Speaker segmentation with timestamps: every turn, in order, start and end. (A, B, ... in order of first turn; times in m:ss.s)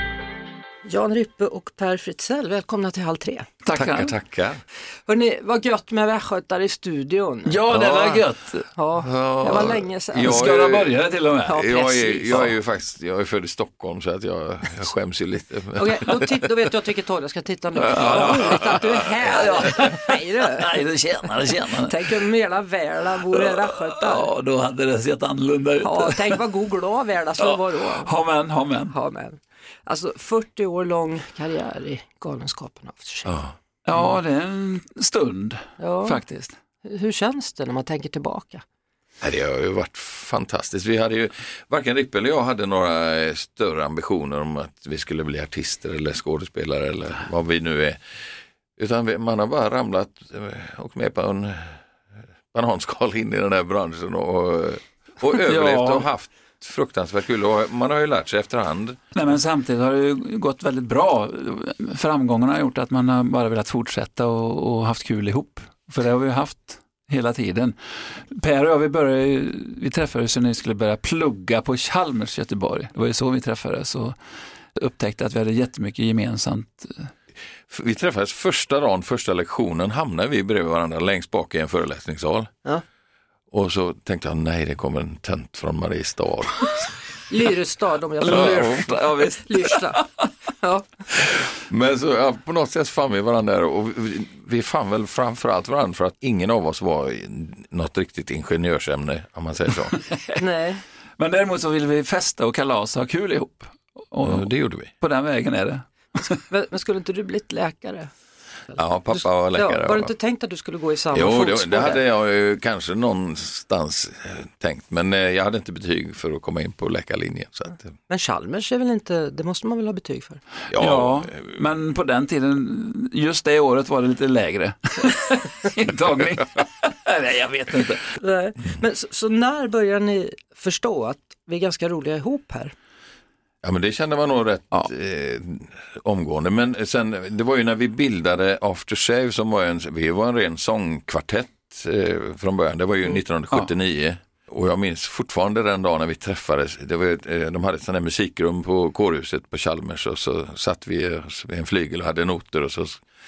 0:00.8-0:03.5 A
0:03.6-0:04.1 B
0:03.7-0:04.6 C
0:05.1-0:07.6 A
0:07.5-0:08.7 B
0:07.7-0:08.2 C
0:08.8-0:10.6 A
0:09.0-0:11.0 C
0:10.2-0:11.7 B
0:11.5-0:12.5 A
0:11.5-0:16.4 C
0:15.8-0:20.7 A
0:17.9-0:22.1 B
0:18.0-0:18.3 C
0:21.8-0:24.3 A
0:23.4-0:26.4 B
0:25.8-0:28.1 A
0:27.4-0:29.0 B
0:28.9-0:33.3 A
0:33.3-0:33.5 C
0:33.8-0:36.6 B
0:35.8-0:36.2 A
0:36.8-0:38.6 A
0:39.2-0:48.0 C
0:48.8-0:51.8 C
0:52.5-0:59.0 C
0:55.4-0:56.1 B
0:59.1-1:14.2 B
1:14.8-1:17.1 B
1:17.7-1:22.5 C
1:23.5-1:27.0 C
1:27.3-1:30.0 A
1:28.2-1:29.9 B
1:28.3-1:29.3 C
1:30.6-1:30.9 A
1:31.2-1:40.0 C
1:39.9-1:40.4 B
1:40.4-1:40.8 A
1:41.2-1:46.4 B
1:44.2-1:44.9 C
1:46.5-1:48.1 A
1:48.7-1:52.0 A
1:48.8-1:50.1 C
1:51.1-1:57.9 C
1:58.1-2:00.4 A
2:00.7-2:01.3 C
2:00.7-2:08.1 B
2:08.2-2:12.7 A
2:13.6-2:33.0 C